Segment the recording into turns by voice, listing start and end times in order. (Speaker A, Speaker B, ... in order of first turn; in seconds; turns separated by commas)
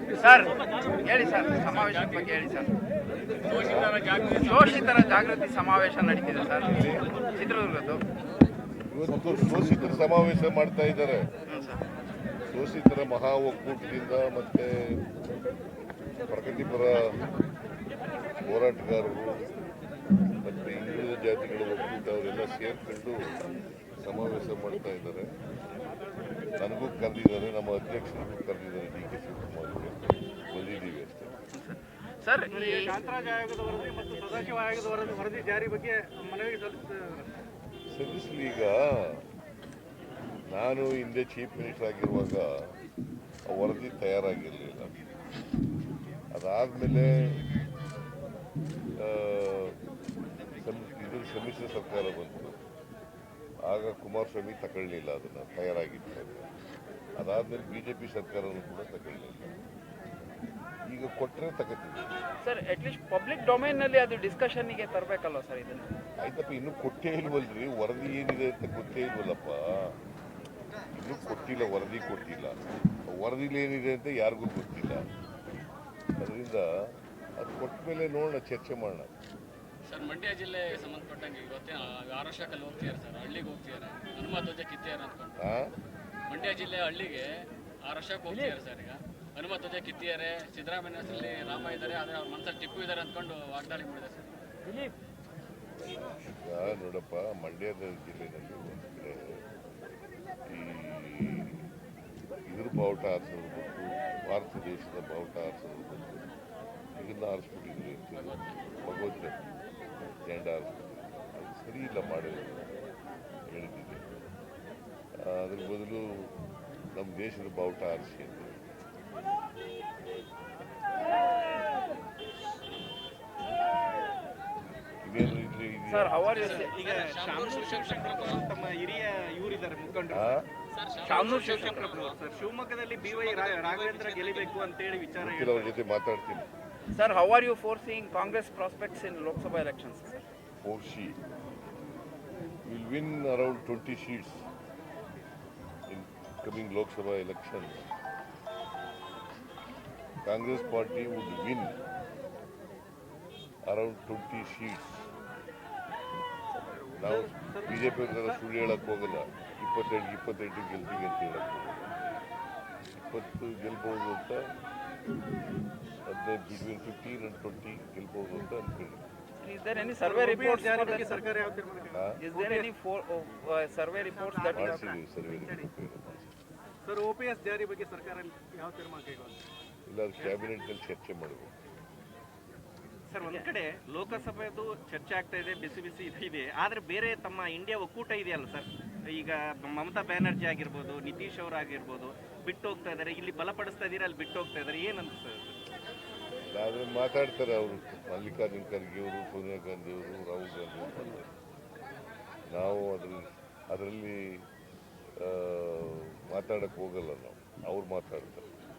Speaker A: 0.2-0.5, Speaker A: 1.0-2.7, Speaker B: 1.8-2.2, Speaker B: 3.4-5.0, Speaker C: 3.5-4.0, Speaker A: 4.4-8.0, Speaker C: 6.6-7.1, Speaker C: 8.9-11.3, Speaker A: 11.5-11.8, Speaker C: 12.5-15.0, Speaker C: 16.3-17.2, Speaker C: 18.4-19.5, Speaker C: 20.4-23.4, Speaker C: 24.0-25.3, Speaker C: 26.6-31.3, Speaker A: 31.5-33.0, Speaker D: 32.5-37.3, Speaker C: 37.9-39.2, Speaker C: 40.5-42.5, Speaker C: 43.5-44.9, Speaker C: 46.3-47.4, Speaker C: 49.0-49.8, Speaker C: 50.6-52.6, Speaker C: 53.6-56.5, Speaker C: 57.2-59.6, Speaker C: 60.9-62.1, Speaker A: 62.4-65.9, Speaker C: 66.2-70.0, Speaker C: 70.9-75.1, Speaker C: 76.2-79.1, Speaker B: 79.9-85.4, Speaker C: 85.4-85.7, Speaker B: 86.3-94.3, Speaker C: 95.7-99.4, Speaker C: 100.5-101.7, Speaker C: 102.5-106.3, Speaker C: 107.0-109.4, Speaker B: 108.1-108.6, Speaker C: 110.2-112.7, Speaker C: 113.5-114.0, Speaker C: 115.2-116.3, Speaker C: 116.9-118.5, Speaker C: 125.0-126.3, Speaker A: 125.9-126.7, Speaker B: 126.3-128.5, Speaker E: 126.3-130.3, Speaker C: 130.1-130.5, Speaker B: 130.7-132.2, Speaker A: 131.0-131.9, Speaker E: 131.1-135.8, Speaker B: 133.0-134.7, Speaker C: 135.2-136.5, Speaker A: 136.9-140.2, Speaker C: 140.6-141.2, Speaker C: 142.6-144.5, Speaker C: 145.9-147.9, Speaker C: 150.2-151.8, Speaker C: 153.7-155.1, Speaker D: 156.8-158.3, Speaker C: 157.0-162.0, Speaker C: 162.9-164.5, Speaker C: 166.1-169.0, Speaker A: 169.4-171.2, Speaker D: 169.9-172.7, Speaker C: 171.9-172.2, Speaker A: 172.2-174.9, Speaker D: 174.0-175.7, Speaker C: 174.5-176.3, Speaker D: 176.8-179.4, Speaker C: 179.9-181.5, Speaker E: 180.2-180.4, Speaker E: 183.1-195.6, Speaker A: 183.2-183.5, Speaker C: 196.5-201.3, Speaker C: 202.5-204.4, Speaker C: 205.2-208.4